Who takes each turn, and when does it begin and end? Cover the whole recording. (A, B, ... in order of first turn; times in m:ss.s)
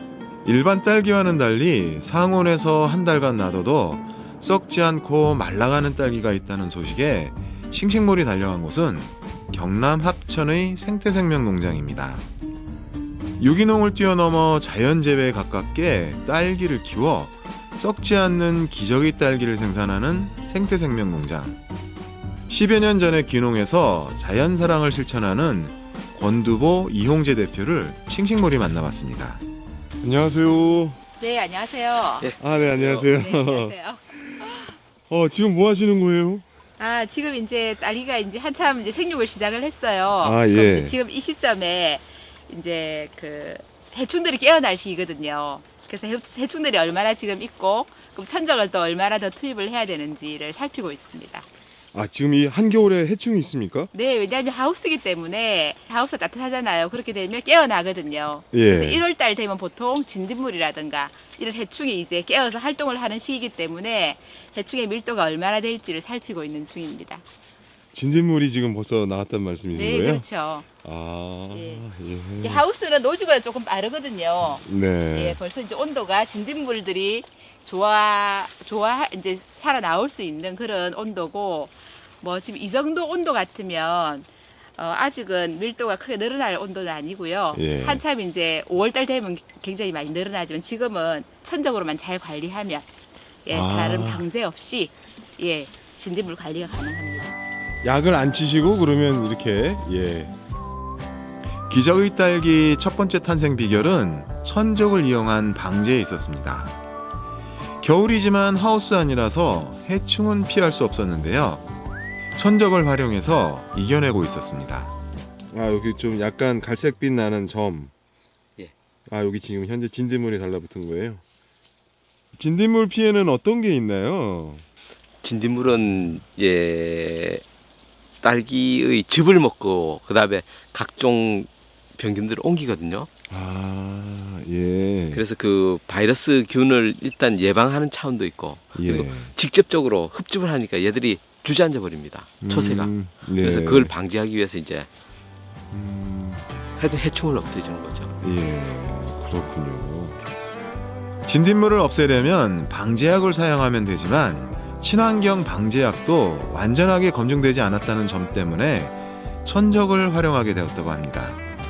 0:00.4-0:12.2 A
0:13.4-0:21.6 A
0:22.5-0:29.4 A
0:30.0-0:31.0 B
0:31.2-0:32.3 C
0:32.2-0:33.1 D
0:32.4-0:33.7 B
0:33.1-0:34.7 C
0:35.1-0:36.4 B
0:36.8-0:51.5 C
0:40.2-0:41.0 B
0:51.9-0:53.9 B
0:53.9-1:07.2 C
0:58.5-0:59.0 B
1:07.9-1:10.2 B
1:09.7-1:10.6 C
1:10.8-1:12.6 B
1:11.5-1:11.8 C
1:12.4-1:32.8 C
1:14.6-1:15.4 B
1:27.5-1:28.0 B
1:33.4-1:37.4 C
1:33.5-1:34.2 B
1:37.8-1:40.3 B
1:41.7-1:46.8 A
1:47.8-1:51.6 A
1:52.3-1:54.9 A
1:55.5-1:57.9 B
1:59.1-2:01.2 B
2:02.4-2:04.6 B
2:05.2-2:07.4 D
2:08.2-2:13.1 D
2:13.3-2:15.2 B
2:15.1-2:24.9 D
2:18.7-2:19.3 B
2:22.4-2:23.9 B
2:25.7-2:26.4 B
2:26.8-2:28.1 D
2:28.2-2:30.2 B
2:31.2-2:41.4 A